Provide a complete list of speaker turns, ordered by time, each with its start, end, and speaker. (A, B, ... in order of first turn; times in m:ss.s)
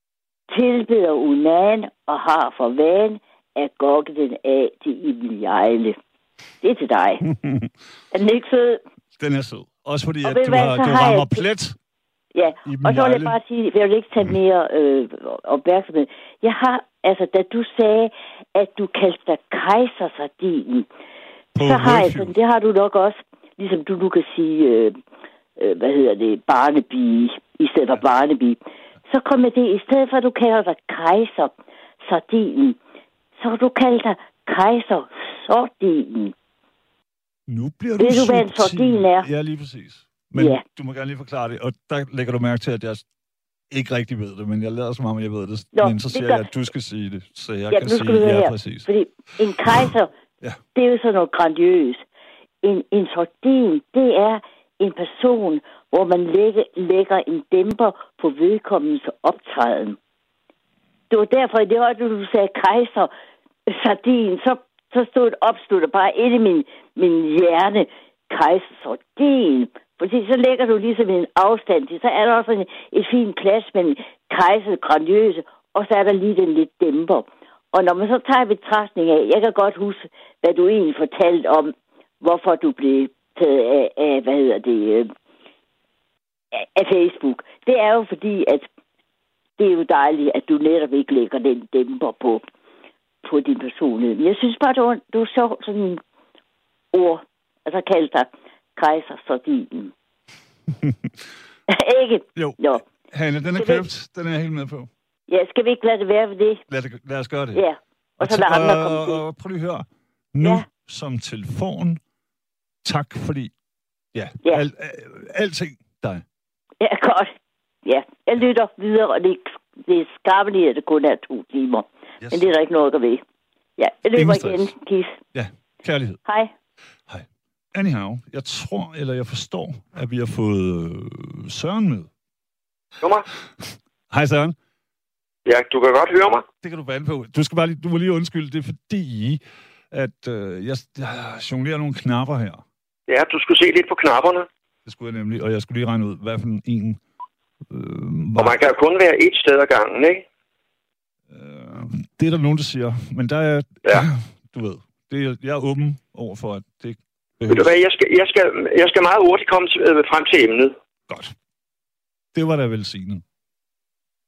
0:00.5-0:06.0 A
0:06.6-0:07.2 A
0:07.2-0:07.7 B
0:08.1-0:08.8 A
0:09.2-0:11.8 B
0:10.2-0:11.4 A
0:12.3-0:20.9 A
0:12.5-0:13.4 B
0:21.6-0:22.3 B
0:21.6-0:25.0 A
0:25.6-0:28.6 A
0:29.1-0:31.5 A
0:32.0-0:32.8 A
0:33.4-0:36.3 A
0:37.5-0:43.0 B
0:38.0-0:39.3 A
0:40.4-0:40.6 A
0:43.7-0:48.9 B
0:45.7-0:46.4 A
0:47.7-0:50.1 A
0:49.6-0:49.9 B
0:50.7-0:52.0 A
0:52.6-1:00.0 A
1:01.1-1:03.1 A
1:03.7-1:25.1 A
1:26.5-1:28.6 A
1:29.6-1:32.4 A
1:33.2-1:36.0 A
1:36.9-1:39.9 A
1:41.7-1:42.8 A
1:42.3-1:44.9 B
1:43.6-1:43.8 A
1:45.3-1:46.6 A
1:46.7-1:47.6 B
1:47.5-1:49.2 A
1:48.2-1:52.0 B
1:52.8-1:53.5 B
1:54.1-1:56.2 B
1:56.8-1:57.3 A
1:57.8-2:03.2 A
2:02.2-2:02.5 B
2:03.8-2:05.2 A
2:04.1-2:04.7 B
2:05.3-2:06.2 B
2:06.2-2:06.5 A
2:07.1-2:12.1 B
2:13.0-2:13.3 C
2:14.1-2:14.6 B
2:15.4-2:16.4 C
2:16.6-2:19.4 B
2:19.9-2:22.6 B
2:23.1-2:24.5 C
2:24.8-2:27.0 B
2:27.7-2:28.6 B
2:28.4-2:30.2 C
2:31.3-2:37.7 B
2:37.5-2:40.7 C
2:41.1-2:41.3 B
2:42.3-2:43.2 B